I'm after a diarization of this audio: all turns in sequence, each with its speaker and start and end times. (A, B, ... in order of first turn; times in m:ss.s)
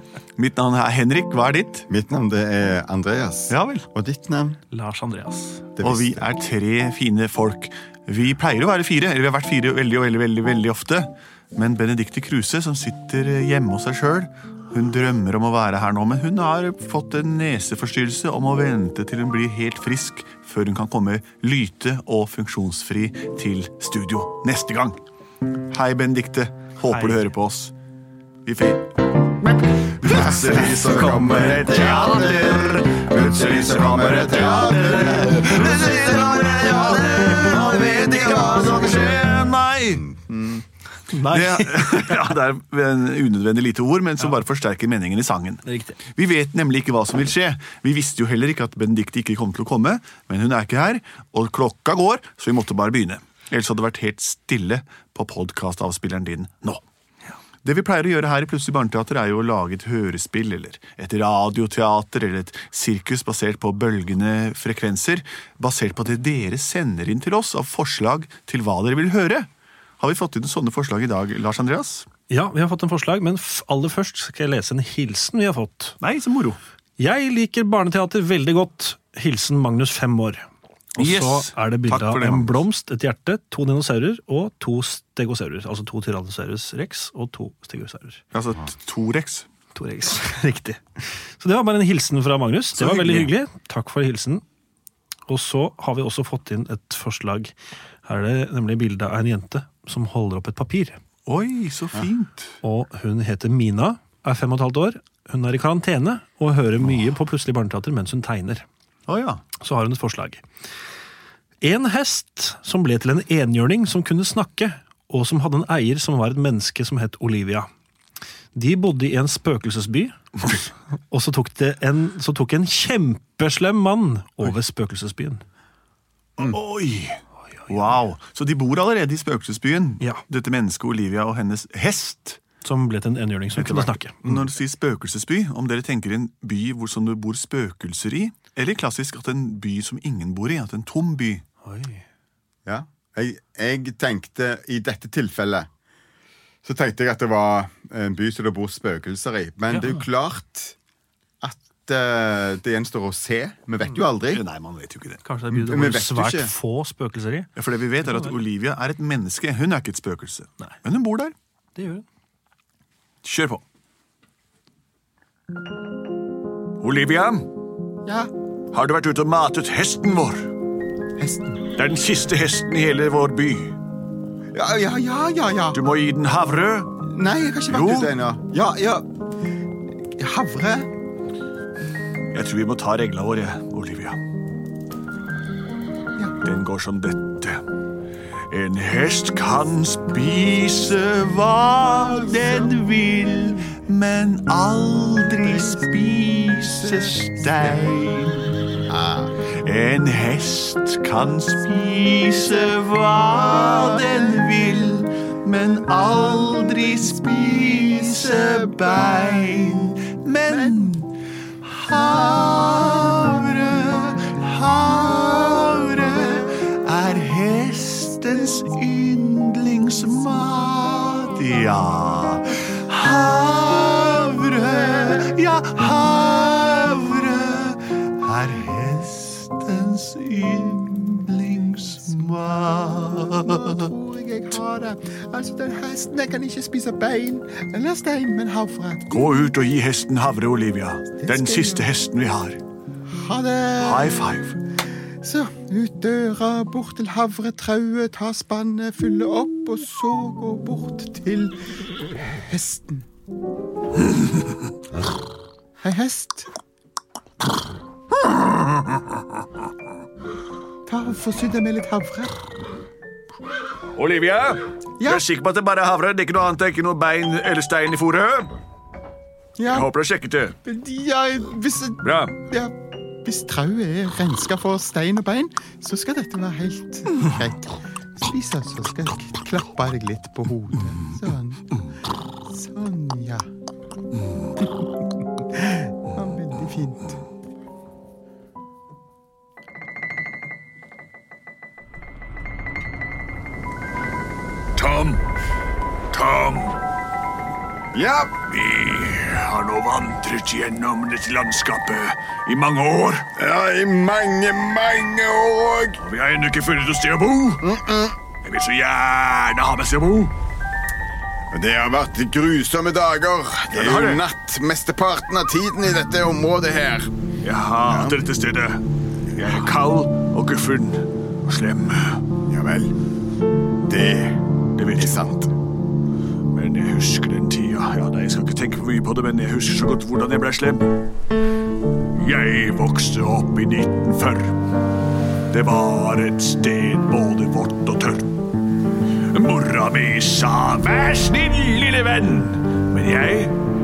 0:00.4-0:01.9 A
0:01.9-0:04.6 B
0:03.5-0:03.9 A
0:04.7-0:05.7 C
0:05.8-0:06.2 B
0:05.8-0:25.0 A
0:25.7-0:27.7 A
0:26.9-0:27.3 C
0:28.4-0:28.9 A
0:29.8-0:40.0 A
0:30.0-0:39.1 B
0:39.9-0:40.6 B
0:41.2-0:56.8 A
0:41.3-0:42.0 C
0:45.7-0:46.0 C
0:57.6-1:12.1 A
1:12.3-1:16.0 C
1:16.0-1:16.6 A
1:17.0-1:20.4 C
1:21.0-1:22.6 A
1:21.0-1:28.2 C
1:28.3-1:29.5 A
1:29.7-1:34.4 C
1:32.8-1:33.3 A
1:35.3-1:37.5 C
1:38.0-1:41.0 C
1:41.3-1:42.6 A
1:42.6-1:48.7 C
1:49.1-1:49.4 A
1:49.6-1:50.4 C
1:51.6-1:57.7 C
1:58.6-2:05.4 C
2:06.4-2:12.4 A
2:12.6-2:14.4 C
2:13.6-2:21.4 A
2:21.6-2:22.0 C
2:22.7-2:25.7 B
2:26.6-2:30.8 B
2:29.7-2:30.0 C
2:31.4-2:34.4 B
2:34.3-2:35.2 A
2:35.2-2:37.5 C
2:35.5-2:36.5 B
2:37.6-2:41.3 A
2:38.0-2:38.3 C
2:41.8-2:42.0 C
2:43.2-2:43.6 A
2:46.8-2:47.5 A
2:48.0-2:48.3 B
2:48.7-2:50.5 A
2:51.2-2:51.6 B
2:51.8-2:53.8 A
2:54.5-2:55.8 B
2:55.7-2:57.0 A
2:57.0-2:59.1 B
2:57.7-2:58.2 A
3:00.2-3:00.9 B
3:02.3-3:04.2 A
3:06.4-3:07.6 A
3:08.5-3:18.6 A
3:18.9-3:19.3 B
3:19.6-3:53.9 A
3:53.4-3:59.3 B
3:59.1-4:02.6 A
4:01.2-4:01.9 B
4:03.1-4:04.2 B
4:03.8-4:04.6 A
4:05.2-4:11.6 B
4:12.4-4:13.1 B
4:15.8-4:16.5 B
4:20.9-4:22.4 B
4:24.0-4:28.5 A
4:25.0-4:25.2 B
4:29.6-4:29.9 B
4:29.7-4:30.6 A
4:30.6-4:41.7 B
4:32.0-4:32.4 A
4:42.5-4:43.5 B
4:45.5-4:47.2 B
4:54.8-4:55.2 A
4:56.1-4:56.8 A
4:57.9-4:58.3 B
4:58.4-5:03.3 A
5:03.4-5:06.0 B
5:06.0-5:07.7 A
5:07.6-5:08.2 B
5:08.4-5:10.3 A
5:11.5-5:17.1 B
5:13.7-5:14.2 A
5:17.4-5:22.2 A
5:17.8-5:18.2 B
5:22.5-5:22.9 B
5:23.9-5:24.4 B
5:24.8-5:25.3 A
5:24.9-5:25.5 B
5:26.5-5:30.9 A
5:32.1-5:34.6 A
5:35.5-5:38.3 A
5:39.3-5:43.6 A